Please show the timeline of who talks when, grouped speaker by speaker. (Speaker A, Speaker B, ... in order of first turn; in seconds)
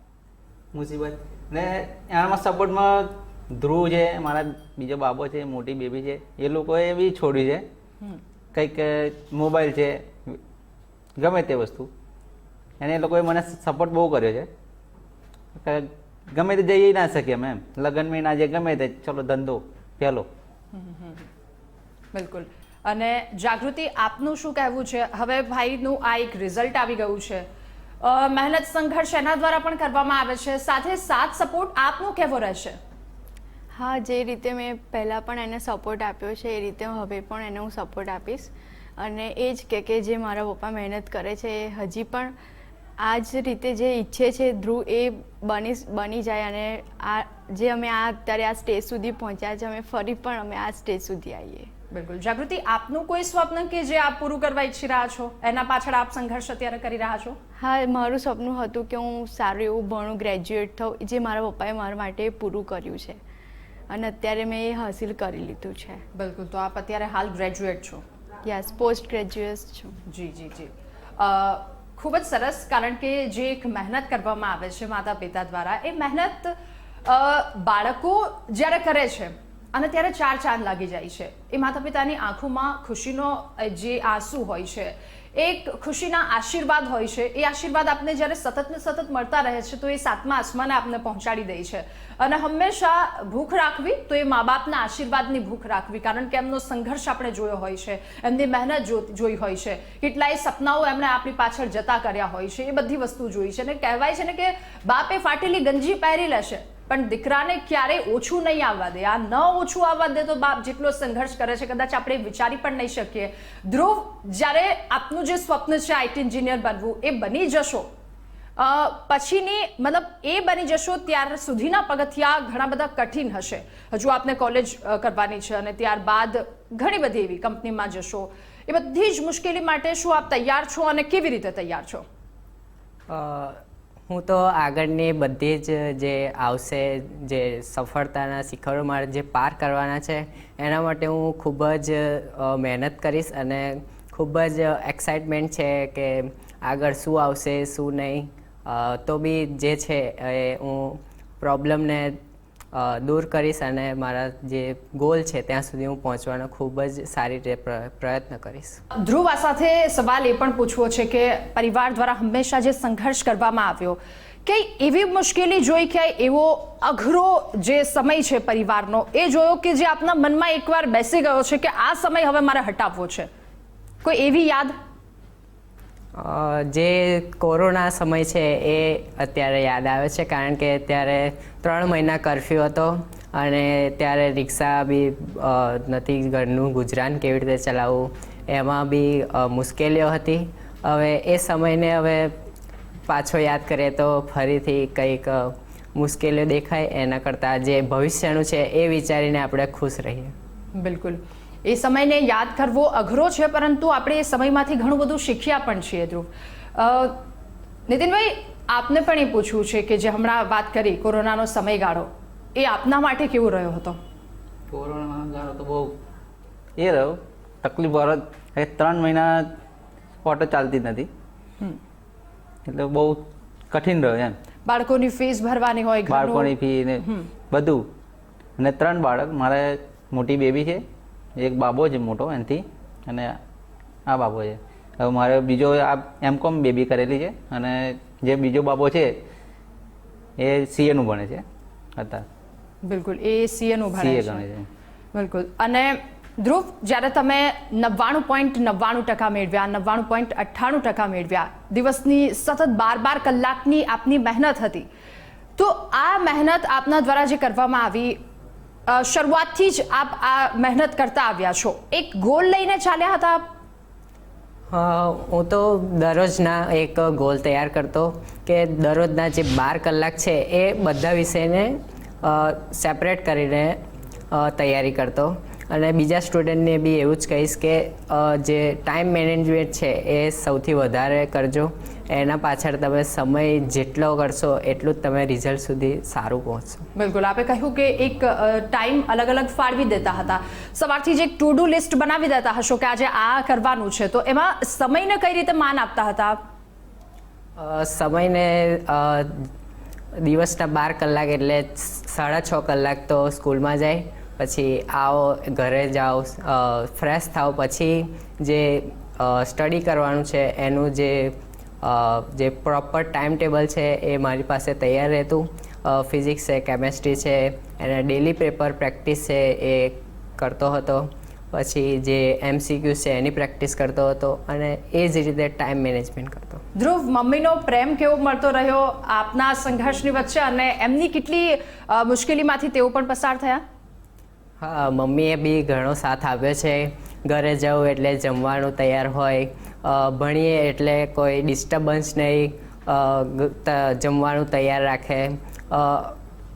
Speaker A: 0.7-7.7, 8.5-10.4, 11.2-11.9, 12.8-14.5, 15.6-20.3, 214.7-215.9, 216.8-219.4, 220.2-221.1, 222.7-224.3, 226.1-227.8, 228.6-230.8, 231.4-233.3, 234.1-239.1, 240.4-241.4, 242.0-242.2, 244.0-244.7
Speaker B: 20.7-21.3, 22.1-27.5, 28.0-32.8, 51.9-57.4, 66.2-68.0, 70.1-76.5, 77.0-117.9, 118.6-132.0, 159.0-173.3, 174.0-174.7, 200.8-207.2, 207.9-214.0, 224.7-227.3, 242.8-244.4, 245.1-254.9, 255.6-258.2, 258.9-263.4, 286.9-296.4, 326.8-333.6
Speaker C: 33.7-42.3, 43.0-51.7, 57.6-63.2, 63.9-66.0, 68.4-70.0
Speaker D: 133.1-152.2, 152.7-158.8, 176.2-192.3, 193.1-200.3, 264.7-273.8, 274.3-286.8, 297.6-299.5, 300.2-326.6, 334.6-346.2